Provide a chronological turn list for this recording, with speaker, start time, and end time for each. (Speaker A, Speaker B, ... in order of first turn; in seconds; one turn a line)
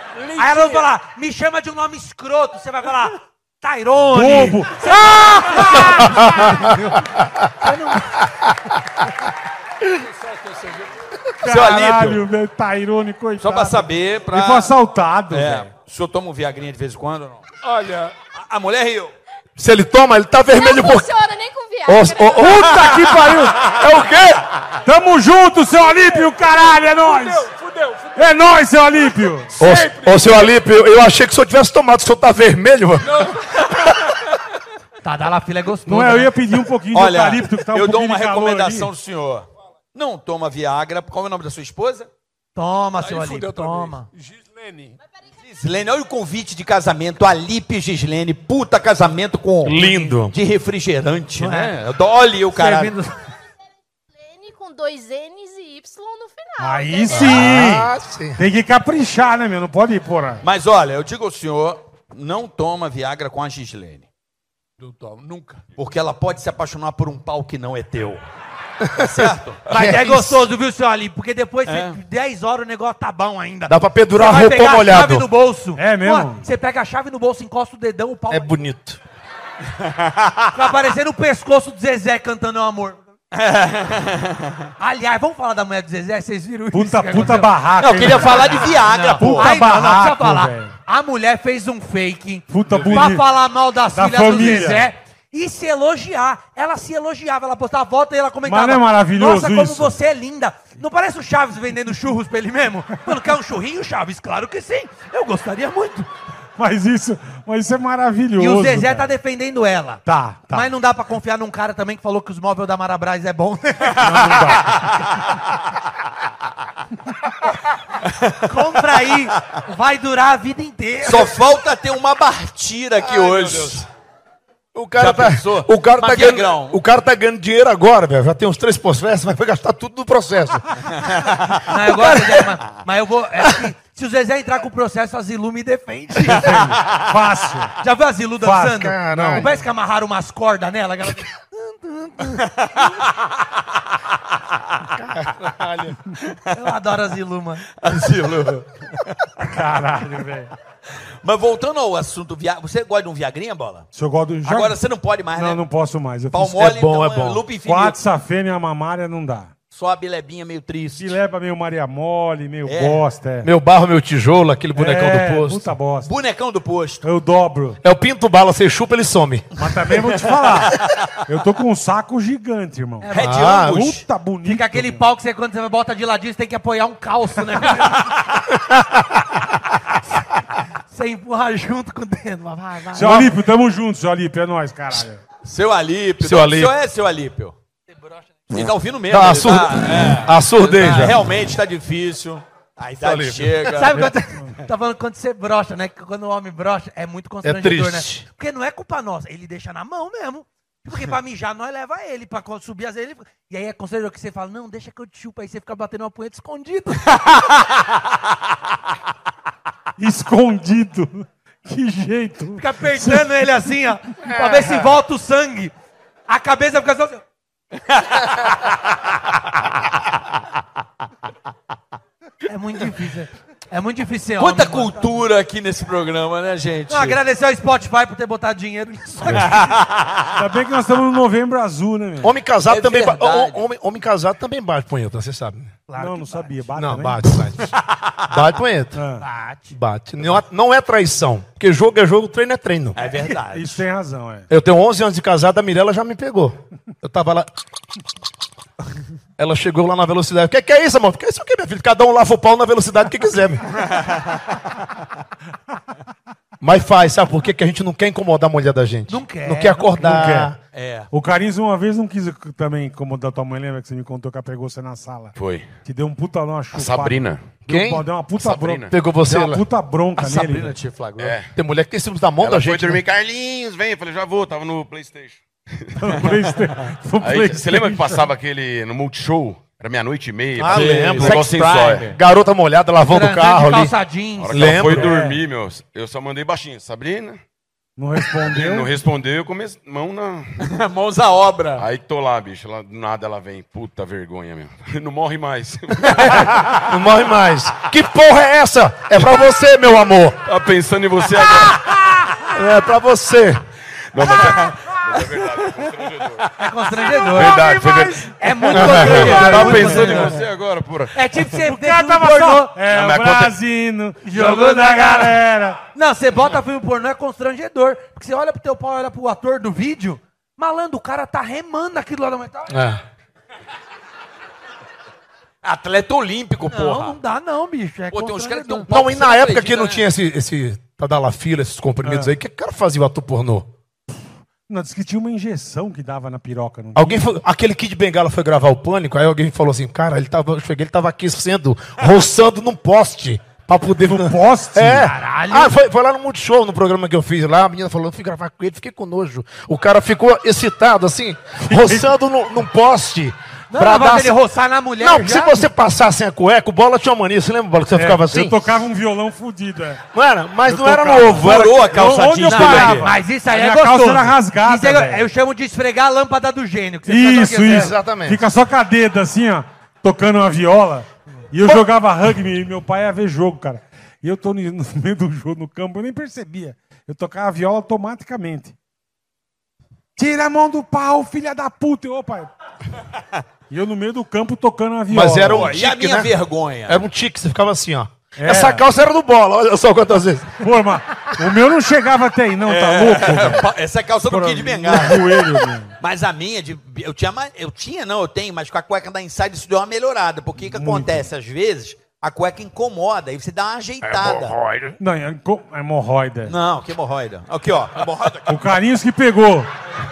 Speaker A: 0.1-0.9
Speaker B: 0.4-7.0
Speaker C: 4.1-6.5
Speaker B: 7.6-8.2
Speaker A: 9.9-11.0
Speaker C: 11.4-15.7
Speaker D: 11.4-12.2
Speaker D: 13.4-14.7
Speaker D: 15.3-17.4
Speaker A: 17.6-18.1
Speaker D: 18.3-19.1
Speaker E: 19.6-21.1
Speaker F: 20.5-22.7
Speaker E: 21.8-24.4
Speaker C: 22.4-23.6
Speaker C: 24.8-27.5
Speaker A: 25.7-30.6
Speaker C: 28.1-29.5
Speaker E: 29.6-33.3
Speaker A: 33.0-34.1
Speaker B: 35.0-36.3
Speaker C: 35.9-38.9
Speaker D: 36.9-42.1
Speaker B: 42.5-44.1
Speaker A: 43.0-45.0
Speaker D: 45.4-52.9
Speaker E: 49.6-50.3
Speaker B: 51.4-51.7
Speaker B: 52.5-53.2
Speaker F: 54.1-57.5
Speaker C: 56.6-60.4
Speaker E: 57.1-58.4
Speaker D: 60.4-64.1
Speaker A: 64.8-65.6
Speaker D: 65.8-68.2
Speaker E: 68.8-70.5
Speaker D: 69.0-69.6
Speaker B: 69.7-78.5
Speaker D: 71.7-72.0
Speaker E: 73.7-75.3
Speaker C: 75.8-76.4
Speaker E: 78.3-79.0
Speaker D: 79.8-80.5
Speaker B: 80.5-83.0
Speaker D: 83.3-84.5
Speaker B: 84.8-106.1
Speaker C: 86.7-90.7
Speaker D: 87.8-89.6
Speaker C: 92.5-93.3
Speaker C: 93.9-94.9
Speaker C: 98.5-100.0
Speaker C: 106.6-109.1
Speaker B: 108.4-114.4
Speaker C: 110.0-110.7
Speaker C: 114.0-114.9
Speaker B: 118.5-121.3
Speaker D: 121.0-123.8
Speaker E: 124.7-131.0
Speaker D: 125.0-126.8
Speaker D: 130.9-132.5
Speaker B: 131.6-136.6
Speaker C: 136.3-137.8
Speaker B: 137.8-142.6
Speaker C: 138.4-139.5
Speaker E: 138.7-139.5
Speaker D: 142.6-143.0
Speaker E: 144.9-146.0
Speaker B: 146.5-147.7
Speaker D: 147.8-149.3
Speaker C: 149.4-150.5
Speaker D: 151.2-153.9
Speaker C: 153.9-154.8
Speaker D: 154.4-155.6
Speaker C: 155.3-156.7
Speaker D: 156.3-158.0
Speaker E: 156.6-157.4
Speaker C: 157.6-159.5
Speaker D: 159.7-161.2
Speaker C: 161.0-163.5
Speaker D: 162.7-163.0
Speaker E: 163.4-165.7
Speaker C: 164.8-166.1
Speaker D: 166.0-167.0
Speaker C: 167.0-167.8
Speaker E: 167.8-169.4
Speaker C: 169.6-175.0
Speaker B: 173.0-173.3
Speaker D: 173.1-174.0
Speaker E: 173.2-173.8
Speaker B: 174.4-178.2
Speaker E: 178.7-179.0
Speaker B: 180.9-183.3
Speaker C: 182.9-185.2
Speaker D: 185.4-187.6
Speaker E: 186.2-186.7
Speaker D: 188.5-194.1
Speaker E: 189.1-191.2
Speaker E: 193.0-193.7
Speaker B: 193.7-207.3
Speaker E: 197.4-198.2
Speaker C: 210.0-213.3
Speaker B: 212.6-215.7
Speaker E: 214.3-214.8
Speaker B: 216.3-217.2
Speaker D: 217.9-218.7
Speaker B: 222.5-225.2
Speaker D: 224.4-227.2
Speaker B: 226.9-229.8
Speaker D: 229.3-230.3
Speaker C: 230.3-232.3
Speaker E: 232.2-235.7
Speaker D: 232.7-233.6
Speaker B: 235.9-236.5
Speaker C: 236.0-237.3
Speaker E: 236.8-237.8
Speaker D: 237.9-238.3
Speaker E: 238.3-239.0
Speaker C: 238.9-239.2
Speaker B: 239.2-239.7
Speaker E: 239.7-243.0
Speaker D: 242.9-243.8
Speaker B: 243.0-243.3
Speaker C: 243.5-244.5
Speaker E: 244.5-247.5
Speaker E: 249.4-253.9
Speaker E: 256.6-260.6
Speaker B: 259.1-259.9
Speaker C: 260.0-260.5
Speaker D: 260.7-261.1
Speaker C: 261.1-265.3
Speaker G: 265.3-265.7
Speaker C: 265.8-270.7
Speaker G: 266.7-267.5
Speaker E: 267.6-268.0
Speaker G: 268.4-268.9
Speaker E: 268.9-269.6
Speaker D: 270.2-271.4
Speaker G: 271.2-271.5
Speaker E: 271.5-273.0
Speaker G: 272.4-276.4
Speaker C: 276.0-278.2
Speaker G: 277.2-282.1
Speaker E: 280.6-283.9
Speaker D: 280.7-282.2
Speaker B: 283.1-284.9
Speaker G: 284.4-287.4
Speaker E: 284.5-285.1
Speaker C: 284.9-285.4
Speaker C: 288.0-288.9
Speaker G: 288.5-290.5
Speaker D: 290.6-291.8
Speaker G: 291.8-296.7
Speaker E: 296.8-300.4
Speaker G: 300.4-301.9
Speaker E: 302.5-303.6
Speaker G: 304.1-306.5
Speaker B: 306.6-310.4
Speaker G: 307.1-311.1
Speaker C: 307.5-310.3
Speaker E: 308.7-309.7
Speaker B: 311.1-312.8
Speaker C: 311.5-315.8
Speaker G: 312.9-313.6
Speaker B: 314.2-315.4
Speaker B: 315.9-322.8
Speaker E: 322.7-323.0
Speaker D: 325.6-327.2
Speaker B: 326.6-328.9
Speaker D: 328.1-330.0
Speaker E: 328.9-333.7
Speaker C: 332.0-332.3
Speaker C: 334.7-337.3
Speaker E: 336.9-354.4
Speaker C: 344.0-345.1
Speaker B: 345.0-345.7
Speaker C: 351.6-352.1
Speaker B: 353.7-355.6
Speaker E: 355.0-358.8
Speaker C: 357.9-360.0
Speaker E: 360.1-361.8
Speaker C: 360.6-365.2
Speaker D: 361.4-363.1
Speaker B: 362.4-367.9
Speaker C: 367.1-378.8
Speaker E: 367.6-368.4
Speaker C: 380.1-382.5
Speaker C: 383.7-385.7
Speaker E: 385.1-386.3
Speaker D: 385.5-387.0
Speaker E: 386.9-390.7
Speaker C: 388.4-388.8
Speaker C: 390.6-393.7
Speaker D: 392.7-404.6
Speaker C: 394.3-395.9
Speaker C: 400.6-401.3
Speaker G: 404.2-404.9
Speaker C: 405.0-406.5
Speaker D: 406.4-408.6
Speaker C: 408.4-409.7